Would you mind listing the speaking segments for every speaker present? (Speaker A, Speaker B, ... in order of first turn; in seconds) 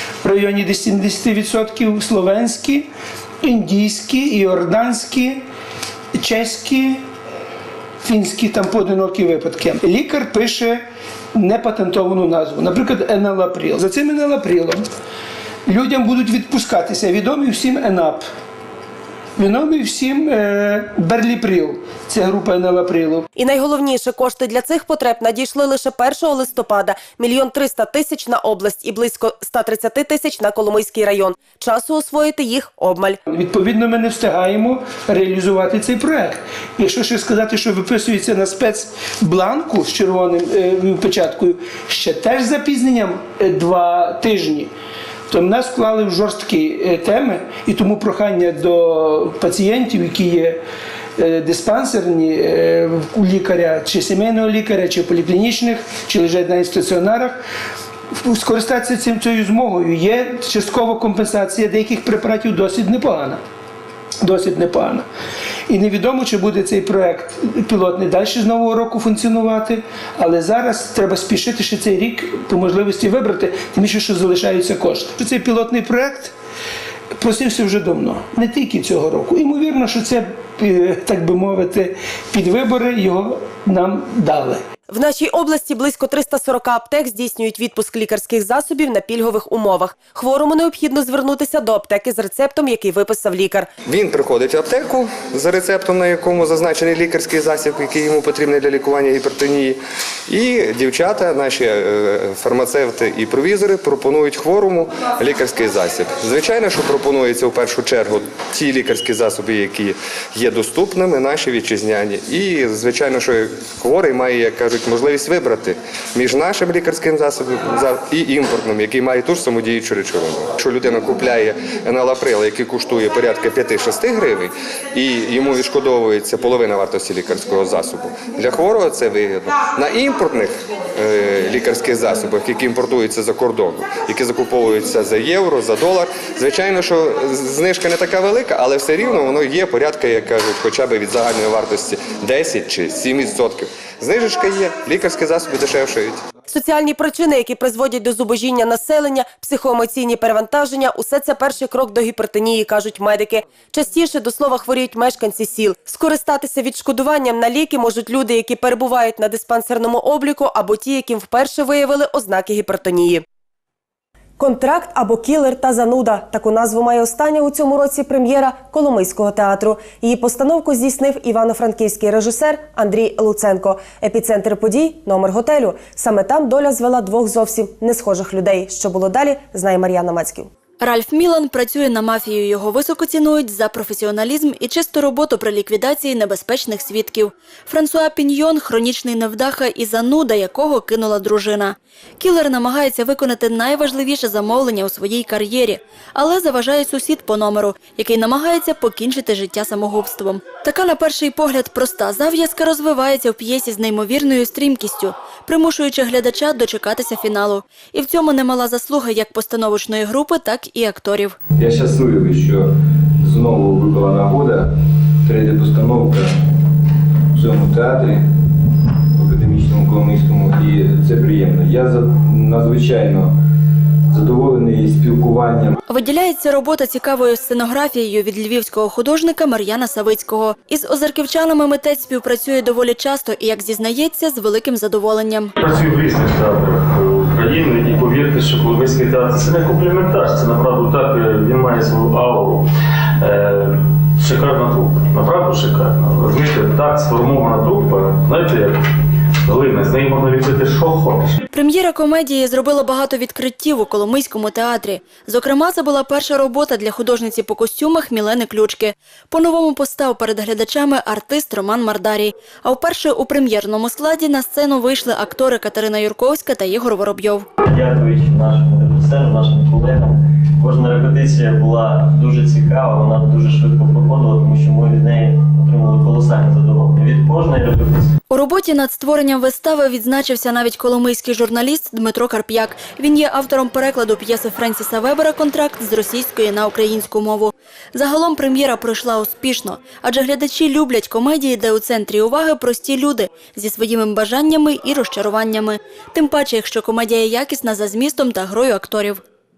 Speaker A: 0.2-2.9, 3.4-5.4, 6.2-7.0, 8.0-10.8, 11.3-14.8, 15.7-18.3, 19.4-23.2, 33.3-44.7, 45.3-50.6, 51.2-57.4, 58.1-63.4, 64.2-65.1, 65.7-76.3, 77.2-84.6
Speaker B: 23.4-33.2, 84.9-93.7, 146.5-163.2, 164.4-180.5
Speaker C: 93.9-99.8, 100.3-146.2
Speaker D: 180.8-211.4, 225.9-235.5, 251.5-267.5, 278.3-299.2
Speaker E: 211.6-212.7, 213.2-214.7, 215.2-216.3, 217.3-218.2, 219.2-223.3, 224.1-225.8
Speaker F: 235.6-242.6, 243.2-248.8, 249.5-251.3
Speaker G: 267.6-278.2